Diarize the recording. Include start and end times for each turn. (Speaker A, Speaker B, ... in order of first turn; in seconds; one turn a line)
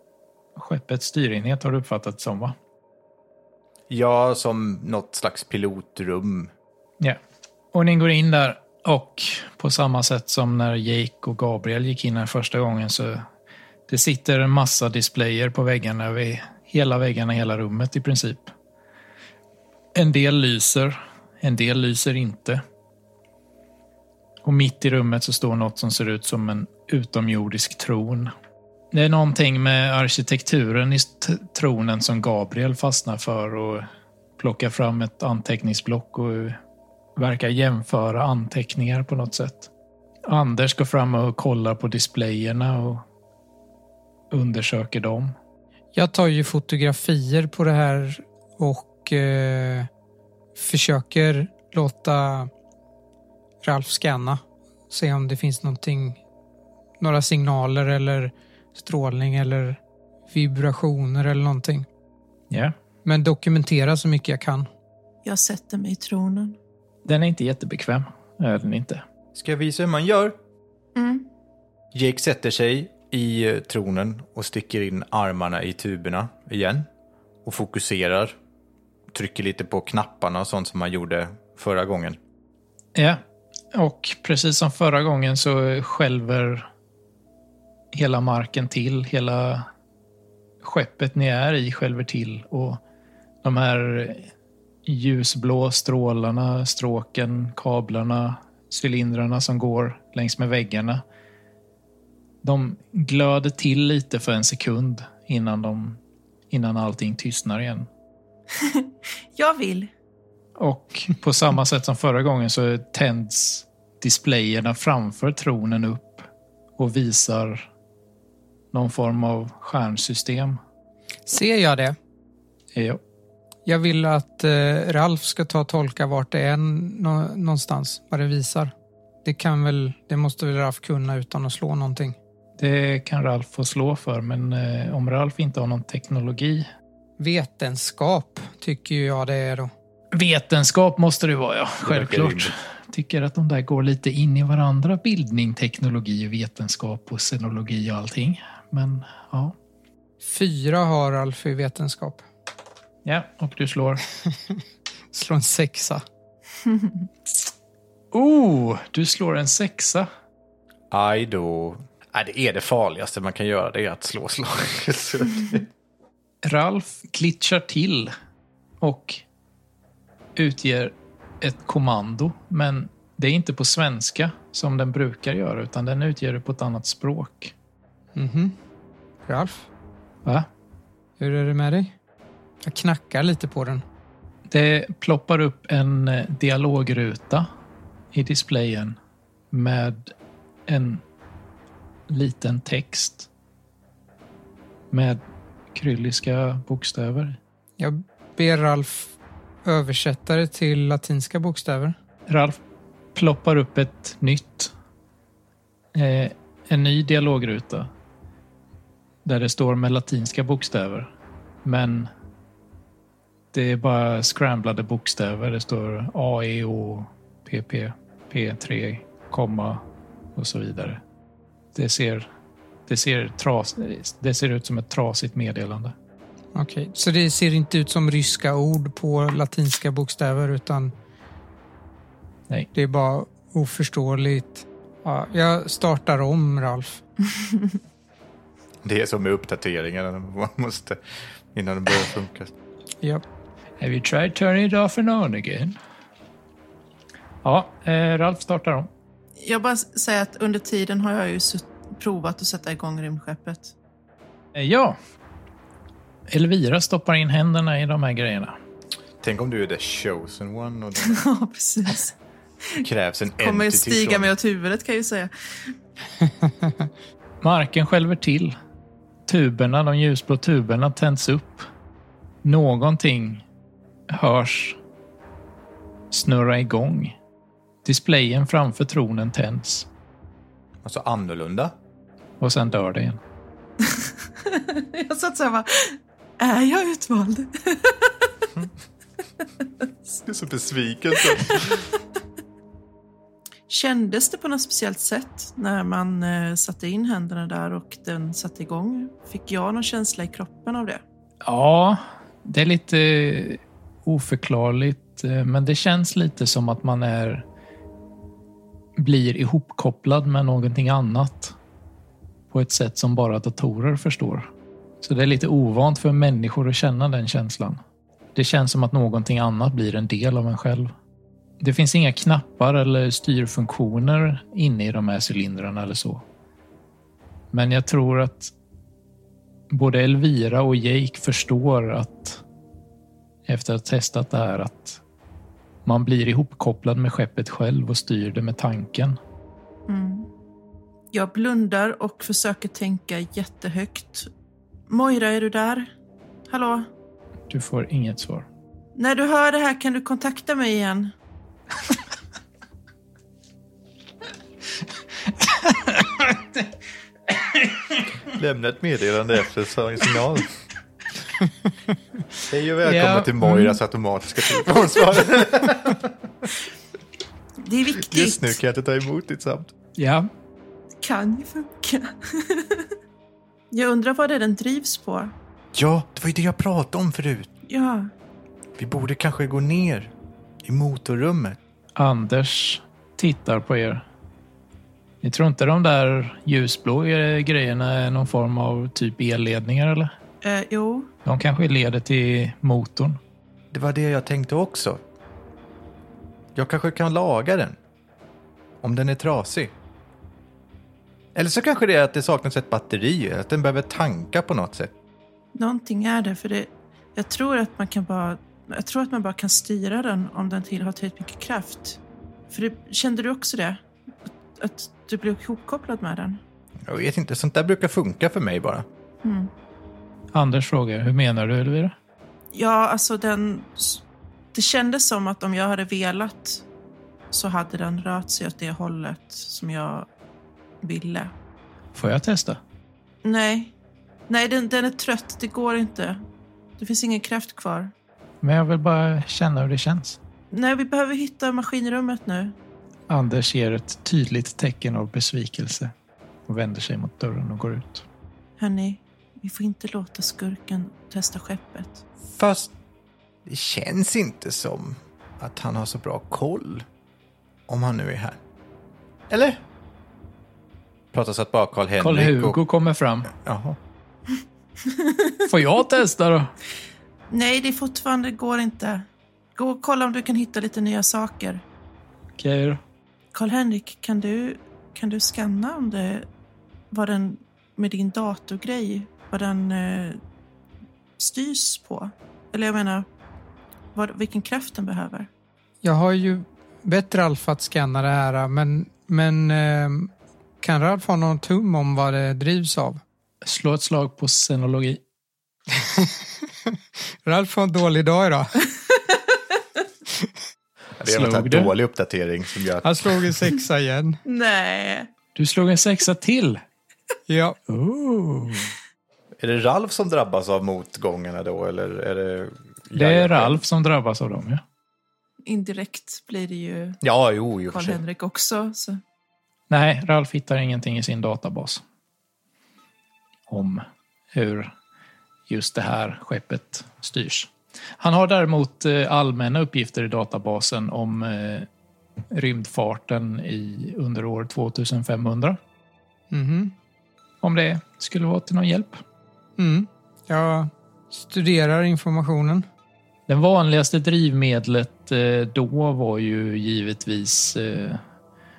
Speaker A: 0.6-2.5
Speaker B: 3.9-6.5
Speaker A: 7.7-13.2
Speaker A: 13.9-18.5
Speaker A: 19.9-22.6
Speaker A: 24.4-28.3
Speaker A: 28.9-33.9
Speaker A: 34.4-36.6
Speaker A: 37.1-39.7
Speaker A: 40.2-43.0
Speaker A: 44.3-45.3
Speaker C: 45.9-49.9
Speaker C: 50.5-52.5
Speaker C: 53.6-56.2
Speaker C: 57.0-59.8
Speaker C: 60.3-61.9
Speaker A: 62.5-62.7
Speaker C: 63.0-64.7
Speaker D: 65.2-66.6
Speaker A: 67.0-69.0
Speaker B: 69.3-70.3
Speaker D: 70.9-71.3
Speaker B: 71.9-76.9
Speaker B: 77.4-78.3
Speaker B: 79.1-82.2
Speaker A: 82.9-83.2
Speaker A: 83.7-86.7
Speaker A: 87.9-89.7
Speaker A: 90.6-92.8
Speaker A: 93.4-94.3
Speaker A: 94.8-101.0
Speaker A: 102.4-107.9
Speaker D: 108.5-109.9
Speaker A: 110.6-117.7
Speaker A: 118.7-120.6
Speaker C: 121.2-122.0
Speaker A: 122.7-123.0
Speaker C: 123.7-128.7
Speaker C: 129.2-132.2
Speaker A: 132.6-136.7
Speaker C: 137.2-139.7
Speaker A: 140.1-149.5
Speaker B: 141.8-142.5
Speaker C: 150.2-152.2
Speaker A: 153.0-154.0
Speaker C: 155.1-156.0
Speaker A: 158.1-160.1
Speaker B: 160.9-165.7
Speaker A: 166.4-168.1
Speaker A: 168.8-169.2
Speaker A: 170.3-177.5
Speaker C: 178.1-178.6
Speaker C: 179.3-179.7
Speaker C: 181.2-181.9
Speaker C: 182.6-183.8
Speaker A: 184.5-187.5
Speaker A: 188.1-188.9
Speaker A: 189.5-190.1
Speaker A: 190.7-191.0
Speaker A: 192.1-193.3
Speaker A: 194.9-195.2
Speaker A: 195.7-197.4
Speaker C: 197.8-199.1
Speaker C: 199.6-201.9
Speaker A: 202.3-202.6
Speaker A: 203.1-204.7
Speaker A: 205.9-207.9
Speaker A: 209.2-211.1
Speaker A: 211.6-212.1
Speaker A: 213.5-219.8
Speaker A: 220.3-221.0
Speaker A: 221.7-222.3
Speaker A: 222.9-225.9
Speaker C: 226.5-230.9
Speaker C: 232.7-237.0
Speaker B: 238.8-241.0
Speaker B: 241.5-242.5
Speaker A: 243.8-245.8
Speaker A: 247.4-248.9
Speaker D: 249.4-253.7
Speaker A: 254.5-254.9
Speaker A: 256.3-258.5
Speaker B: 259.2-261.2
Speaker D: 261.0-262.1
Speaker B: 262.8-264.3
Speaker D: 263.4-265.7
Speaker A: 267.4-268.5
Speaker A: 269.3-271.7
Speaker A: 272.4-273.4
Speaker A: 274.1-274.8
Speaker A: 276.1-277.2
Speaker A: 277.8-279.9
Speaker B: 280.8-281.7
Speaker A: 282.4-283.2
Speaker D: 283.8-288.3
Speaker B: 290.2-291.8
Speaker D: 291.3-291.7
Speaker D: 293.7-301.0
Speaker A: 301.4-307.4
Speaker A: 309.0-311.5
Speaker A: 312.5-314.5
Speaker A: 315.0-317.8
Speaker A: 318.3-320.9
Speaker A: 321.6-326.2
Speaker A: 327.5-328.5
Speaker A: 329.7-332.4
Speaker A: 333.4-335.0
Speaker A: 335.8-339.2
Speaker D: 339.9-340.3
Speaker D: 341.1-344.3
Speaker D: 344.9-345.9
Speaker D: 346.5-346.9
Speaker A: 347.5-348.5
Speaker D: 348.9-351.1
Speaker A: 355.2-356.7
Speaker A: 357.3-358.0
Speaker B: 358.2-360.5
Speaker B: 362.4-366.5
Speaker A: 362.8-363.8
Speaker D: 367.6-368.6
Speaker B: 368.0-369.7
Speaker A: 369.9-370.3
Speaker D: 371.0-372.9
Speaker D: 373.7-375.3
Speaker B: 375.7-377.5
Speaker D: 377.7-378.1
Speaker B: 378.8-380.1
Speaker B: 380.6-381.6
Speaker A: 381.9-384.0
Speaker A: 385.2-390.1
Speaker D: 390.4-391.1
Speaker A: 391.2-393.2
Speaker B: 393.7-395.0
Speaker B: 396.6-397.7
Speaker B: 398.8-399.7
Speaker B: 401.3-404.9
Speaker D: 405.6-412.0
Speaker D: 412.5-413.8
Speaker D: 414.6-416.4
Speaker B: 416.9-418.8
Speaker D: 419.2-419.5
Speaker A: 420.3-421.9
Speaker D: 422.5-424.0
Speaker D: 424.5-426.6
Speaker D: 427.3-430.1
Speaker D: 430.8-431.3
Speaker A: 431.9-432.6
Speaker D: 433.2-433.7
Speaker D: 434.3-436.2
Speaker D: 436.8-437.9
Speaker A: 438.4-440.2
Speaker D: 440.5-442.5
Speaker A: 443.1-445.9
Speaker A: 446.5-448.1
Speaker D: 448.6-452.0
Speaker B: 452.4-452.7
Speaker B: 453.4-456.8
Speaker B: 457.7-458.4
Speaker B: 459.3-459.6
Speaker B: 461.1-462.6
Speaker A: 462.0-463.3
Speaker B: 463.4-463.8
Speaker D: 464.8-465.3
Speaker A: 465.4-466.5
Speaker D: 467.3-471.6
Speaker A: 472.4-472.8
Speaker D: 473.3-476.3
Speaker D: 476.9-480.2
Speaker D: 481.2-483.1
Speaker D: 483.9-485.3
Speaker C: 485.8-493.0
Speaker A: 493.4-495.0
Speaker C: 495.8-496.1
Speaker C: 497.2-498.7
Speaker B: 501.0-503.3
Speaker A: 501.0-501.7
Speaker C: 502.8-504.2
Speaker D: 504.2-505.1
Speaker A: 505.3-506.6
Speaker C: 507.3-507.6
Speaker A: 507.7-508.7
Speaker B: 509.4-513.6
Speaker A: 512.9-514.6
Speaker D: 515.4-517.0
Speaker B: 517.0-518.0
Speaker D: 517.7-519.0
Speaker A: 519.7-521.8
Speaker A: 523.5-524.7
Speaker A: 525.5-531.7
Speaker A: 532.3-535.6
Speaker C: 536.3-536.7
Speaker A: 537.4-539.0
Speaker C: 539.6-542.6
Speaker A: 543.3-548.0